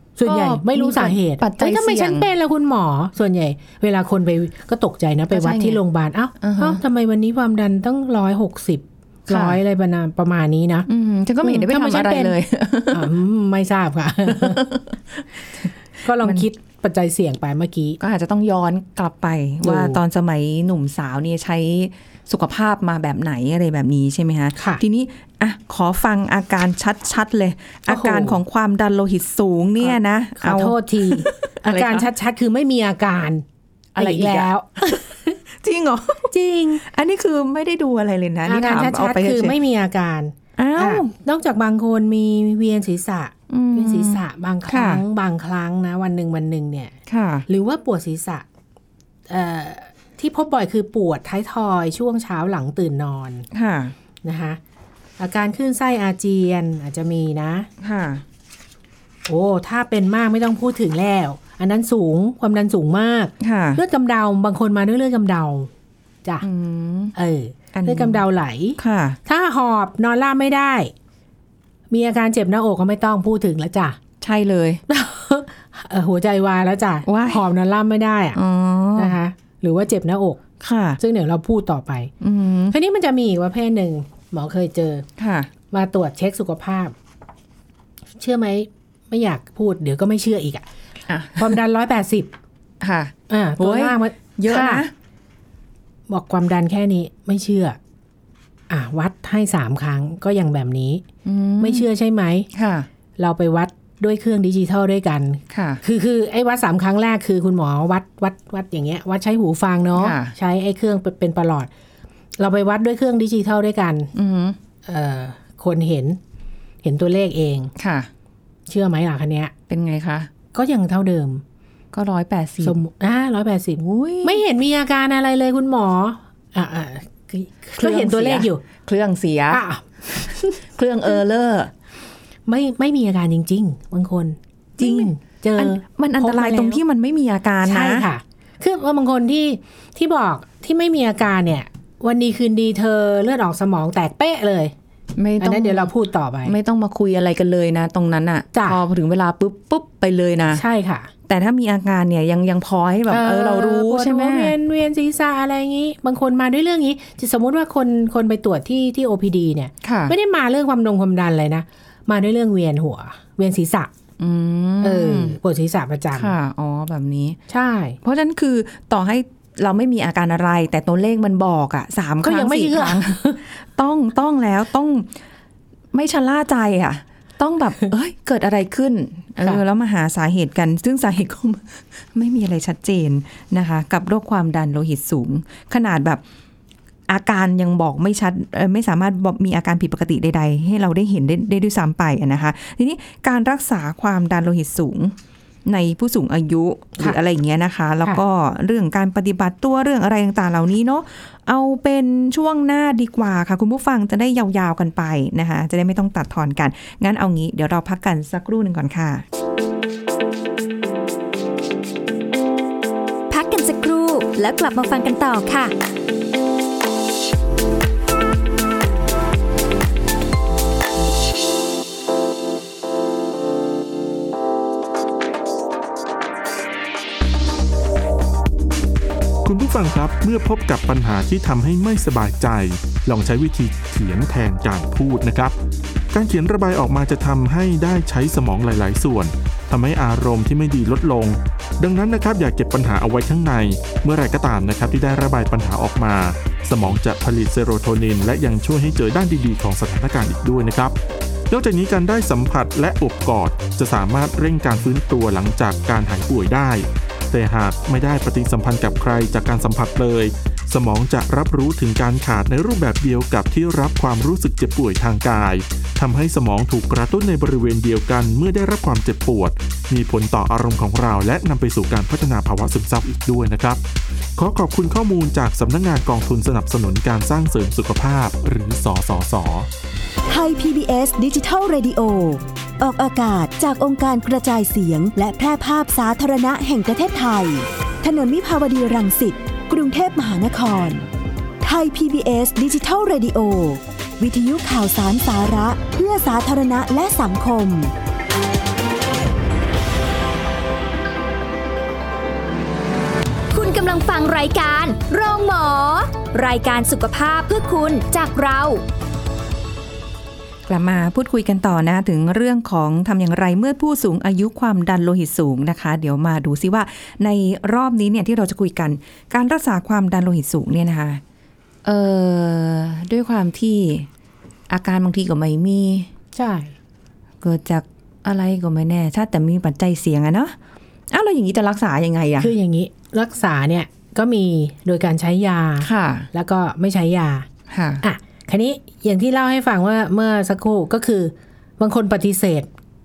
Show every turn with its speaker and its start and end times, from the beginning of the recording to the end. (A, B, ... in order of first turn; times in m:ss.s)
0:00.2-0:10.9 A
0:00.2-0:02.3 B
0:05.3-0:05.8 B
0:06.4-0:06.8 B
0:09.3-0:09.6 B
0:10.9-0:13.1 B
0:11.4-0:12.4 A
0:12.9-0:14.6 A
0:14.3-0:16.5 B
0:16.0-0:18.0 A
0:18.0-0:32.1 B
0:19.6-0:20.0 A
0:24.6-0:24.8 A
0:27.9-0:28.4 A
0:29.8-0:33.4 A
0:34.0-0:34.5 B
0:34.0-0:35.4 A
0:35.6-0:39.6 B
0:36.3-0:36.8 A
0:38.5-0:47.0 A
0:40.6-0:41.1 B
0:43.5-0:45.0 B
0:47.1-0:47.5 B
0:47.5-0:48.4 A
0:49.3-0:53.5 A
0:53.5-0:54.0 B
0:54.2-0:54.6 A
0:55.2-0:57.7 A
0:57.8-0:58.2 B
0:59.3-1:05.7 A
1:03.4-1:03.8 B
1:06.4-1:07.2 B
1:07.2-1:10.9 A
1:07.7-1:08.2 B
1:08.8-1:09.2 B
1:11.9-1:14.0 A
1:14.2-1:14.8 B
1:14.9-1:18.4 A
1:17.1-1:17.4 B
1:18.3-1:19.2 B
1:19.0-1:20.4 A
1:20.6-1:21.0 B
1:21.0-1:22.1 A
1:22.2-1:22.8 B
1:22.7-1:25.1 A
1:25.2-1:25.5 B
1:25.7-1:27.0 A
1:28.2-1:30.7 A
1:31.1-1:31.6 B
1:31.4-1:32.3 A
1:32.8-1:34.9 B
1:33.3-1:34.9 A
1:36.1-1:37.8 A
1:38.7-1:41.0 A
1:41.2-1:41.9 B
1:41.6-1:42.5 A
1:42.5-1:42.9 B
1:43.2-1:51.7 A
1:45.5-1:45.8 B
1:50.0-1:50.4 B
1:52.4-1:54.1 A
1:54.2-1:54.6 B
1:54.8-1:56.2 A
1:56.8-1:57.7 A
1:57.8-1:58.1 B
1:58.7-1:59.5 A
1:59.7-2:00.3 B
2:00.5-2:01.4 A
2:01.9-2:02.8 B
2:02.6-2:08.6 A
2:03.8-2:04.4 B
2:07.8-2:09.6 B
2:09.5-2:10.5 A
2:10.2-2:11.7 B
2:12.5-2:16.8 A
2:14.8-2:18.1 B
2:17.6-2:24.7 A
2:25.2-2:25.9 B
2:25.4-2:26.6 A
2:26.4-2:30.6 B
2:28.5-2:28.8 A
2:30.5-2:31.1 A
2:31.3-2:34.6 B
2:33.1-2:43.9 A
2:39.8-2:40.2 B
2:44.2-2:45.4 B
2:44.8-2:46.3 A
2:46.1-2:47.4 B
2:47.5-2:48.0 A
2:48.0-2:55.2 B
2:52.2-2:53.4 A
2:55.9-3:06.2 B
3:07.1-3:29.2 B
3:33.3-3:35.7 C
3:49.4-3:55.5 D
3:56.1-4:11.0 D
4:11.5-4:33.8 D
4:34.4-4:39.7 D
4:40.3-4:51.1 E
4:51.6-4:57.9 E
5:03.5-5:08.8 C
5:10.7-5:21.2 B
5:21.8-5:24.1 B
5:24.7-5:26.1 B
5:26.4-5:26.7 A
5:27.4-5:30.6 B
5:31.1-5:32.5 B
5:32.4-5:37.5 A
5:35.8-5:36.3 B
5:37.7-5:38.0 B
5:38.0-5:42.7 A